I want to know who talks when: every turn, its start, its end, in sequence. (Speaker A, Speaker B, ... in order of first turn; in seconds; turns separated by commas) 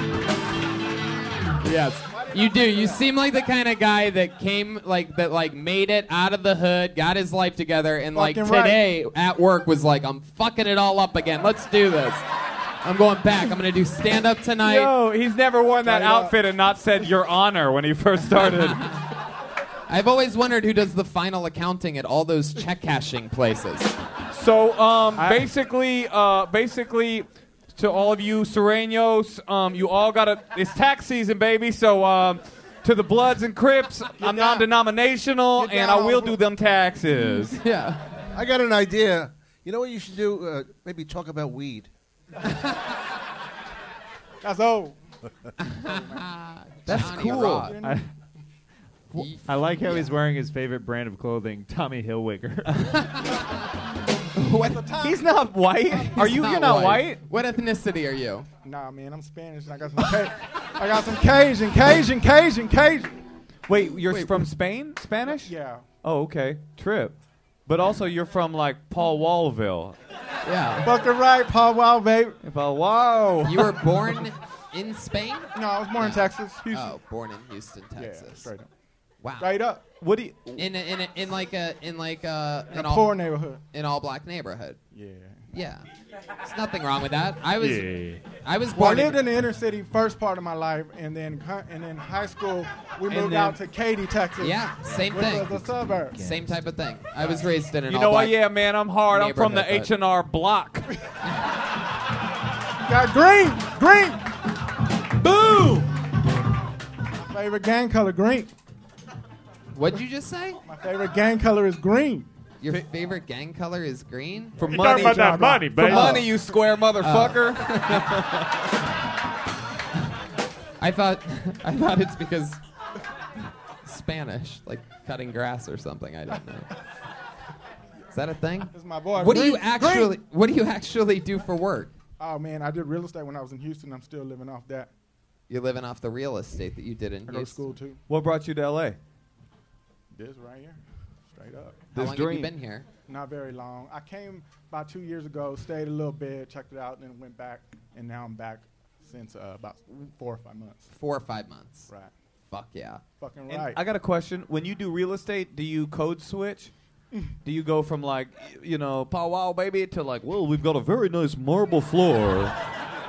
Speaker A: 1.6-12.2, Speaker B: 2.1-3.0, Speaker B: 8.1-8.8, Speaker A: 12.8-14.9, Speaker C: 14.6-18.8, Speaker B: 15.8-16.4, Speaker A: 19.9-23.9, Speaker C: 24.3-37.6, Speaker B: 34.2-34.7, Speaker B: 35.5-36.4, Speaker A: 37.5-38.1, Speaker D: 38.3-41.9, Speaker B: 44.4-45.0, Speaker A: 45.7-47.7, Speaker B: 45.9-46.2, Speaker C: 46.9-47.7, Speaker B: 46.9-48.0, Speaker E: 47.8-48.0, Speaker A: 49.1-50.1, Speaker E: 49.1-52.7, Speaker A: 52.8-53.4, Speaker A: 54.4-54.9, Speaker B: 54.6-55.3, Speaker C: 55.0-57.2, Speaker B: 55.9-56.1, Speaker A: 56.1-58.5, Speaker B: 58.6-63.1, Speaker C: 63.7-65.5, Speaker B: 65.2-65.8, Speaker C: 66.0-67.1, Speaker C: 67.7-70.0, Speaker A: 70.4-70.9, Speaker B: 70.8-72.4, Speaker C: 72.4-73.8, Speaker A: 73.4-78.5, Speaker B: 75.5-76.7, Speaker C: 76.6-76.9, Speaker B: 78.0-78.7, Speaker A: 79.2-79.5, Speaker B: 79.4-79.8, Speaker C: 80.0-80.6, Speaker A: 80.6-83.2, Speaker B: 82.7-83.6, Speaker A: 83.7-84.8, Speaker B: 84.9-85.4, Speaker A: 85.5-85.8, Speaker A: 86.4-89.2, Speaker E: 87.6-88.2, Speaker B: 88.7-96.3, Speaker C: 93.1-93.5, Speaker A: 94.4-98.4, Speaker C: 97.9-100.9, Speaker A: 99.1-99.9, Speaker B: 102.8-104.2, Speaker B: 107.2-108.5, Speaker A: 109.7-110.6, Speaker B: 110.6-112.3, Speaker A: 112.6-114.7, Speaker C: 114.6-118.5, Speaker B: 114.6-116.5, Speaker E: 114.7-116.1, Speaker A: 115.8-116.3, Speaker A: 117.0-118.2, Speaker A: 120.8-122.6, Speaker A: 123.8-126.7, Speaker A: 128.1-131.9, Speaker B: 128.6-130.1, Speaker B: 132.2-134.9, Speaker A: 135.5-137.7, Speaker B: 137.3-138.0, Speaker C: 138.1-139.0, Speaker B: 140.1-141.8, Speaker C: 141.9-142.5, Speaker A: 141.9-142.8, Speaker B: 143.1-150.9, Speaker A: 150.9-151.9, Speaker A: 152.5-153.0, Speaker B: 153.2-153.8, Speaker C: 153.5-156.7, Speaker C: 157.4-162.5